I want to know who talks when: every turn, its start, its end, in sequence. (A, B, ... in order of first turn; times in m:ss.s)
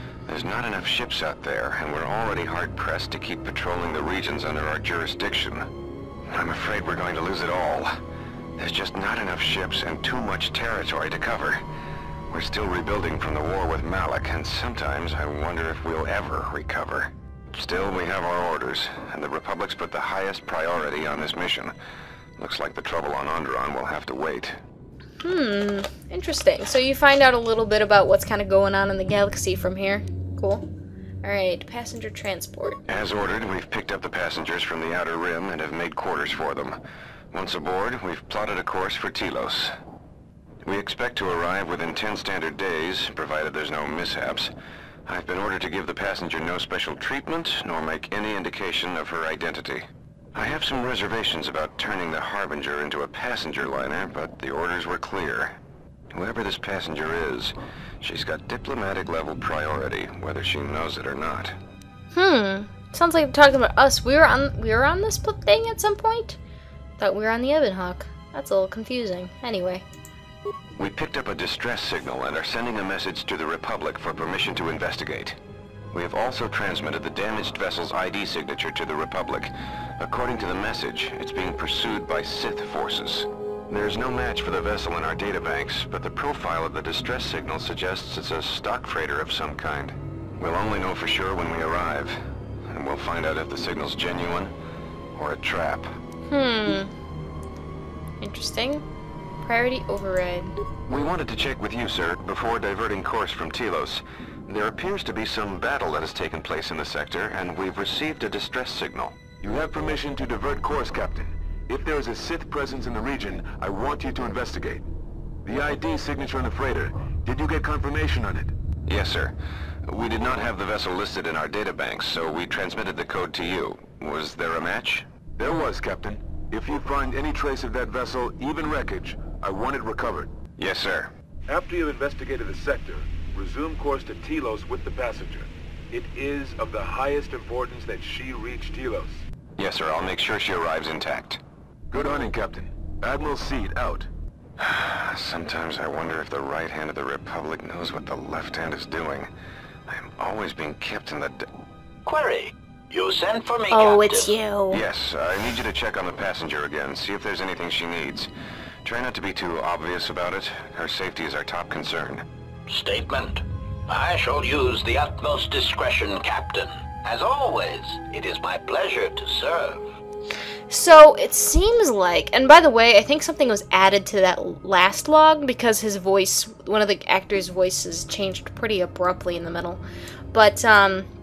0:00.3-0:05.6 A
0:06.3-0:07.9 A
0:08.6-0:11.6 A
0:12.3-0:21.7 A
0:22.4-0:24.6 A
0:25.2-0:30.7 B
0:31.2-0:32.8 B
0:32.9-0:36.8 A
0:37.3-0:39.7 A
0:40.6-0:44.5 A
0:45.1-0:55.6 A
0:56.1-1:01.6 A
1:02.1-1:06.4 B
1:07.0-1:09.8 B
1:10.8-1:15.4 A
1:15.9-1:32.2 A
1:32.7-1:34.5 A
1:35.1-1:35.9 A
1:36.3-1:36.9 B
1:38.2-1:38.8 B
1:39.4-1:40.6 B
1:40.9-1:49.2 A
1:49.4-1:54.9 C
1:55.4-1:58.5 C
1:58.9-1:59.3 A
1:59.9-2:05.0 A
2:05.4-2:10.3 C
2:10.6-2:11.1 A
2:11.5-2:19.2 C
2:19.6-2:21.4 A
2:21.9-2:24.1 C
2:24.6-2:29.3 A
2:29.9-2:31.4 A
2:32.0-2:34.3 D
2:33.7-2:34.8 B
2:34.7-2:38.3 A
2:38.8-2:42.2 A
2:42.7-2:49.8 D
2:50.7-2:59.8 B
3:00.3-3:01.1 B